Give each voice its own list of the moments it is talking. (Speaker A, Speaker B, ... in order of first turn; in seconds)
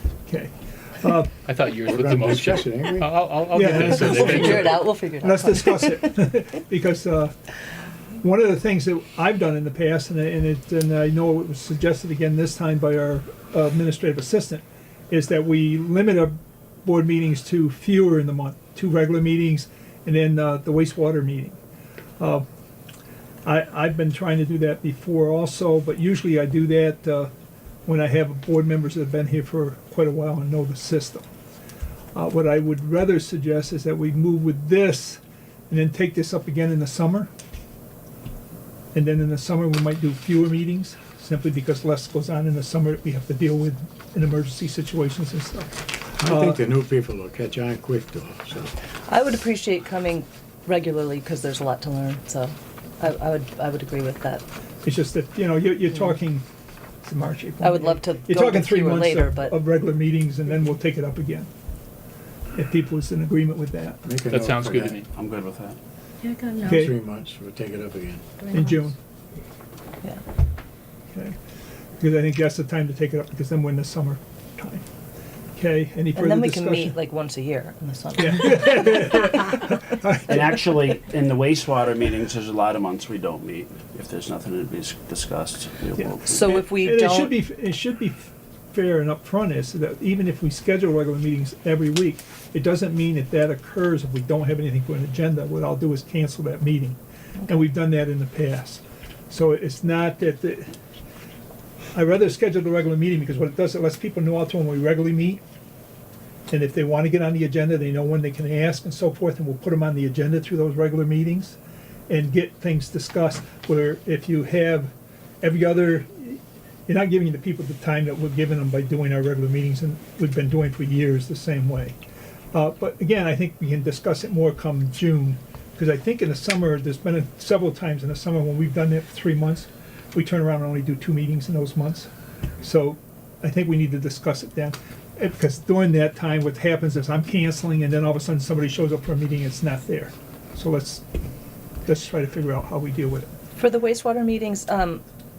Speaker A: 0.3-1.3, 3.5-7.3, 8.2-21.6, 22.2-22.4, 23.4-27.3, 27.9-31.3, 32.1-37.3, 38.9-46.6, 54.8-56.5, 57.0-61.5, 62.5-64.0, 66.6-66.9, 68.5-69.0, 72.0-74.8, 75.5-77.0, 78.2-80.3, 86.0-100.7, 101.9-105.4, 106.5-111.6, 112.1-122.0, 122.5-132.1, 132.6-141.0, 141.8-143.3
Speaker B: 1.5-4.9, 64.3-65.1
Speaker C: 1.8-3.2, 46.2-48.7, 64.0-65.0, 66.6-68.2
Speaker D: 3.8-6.1, 49.1-54.4, 57.6-59.5, 66.2-66.9, 76.1-79.8, 86.2-87.3, 143.6-145.0
Speaker E: 65.1-65.8, 80.3-86.5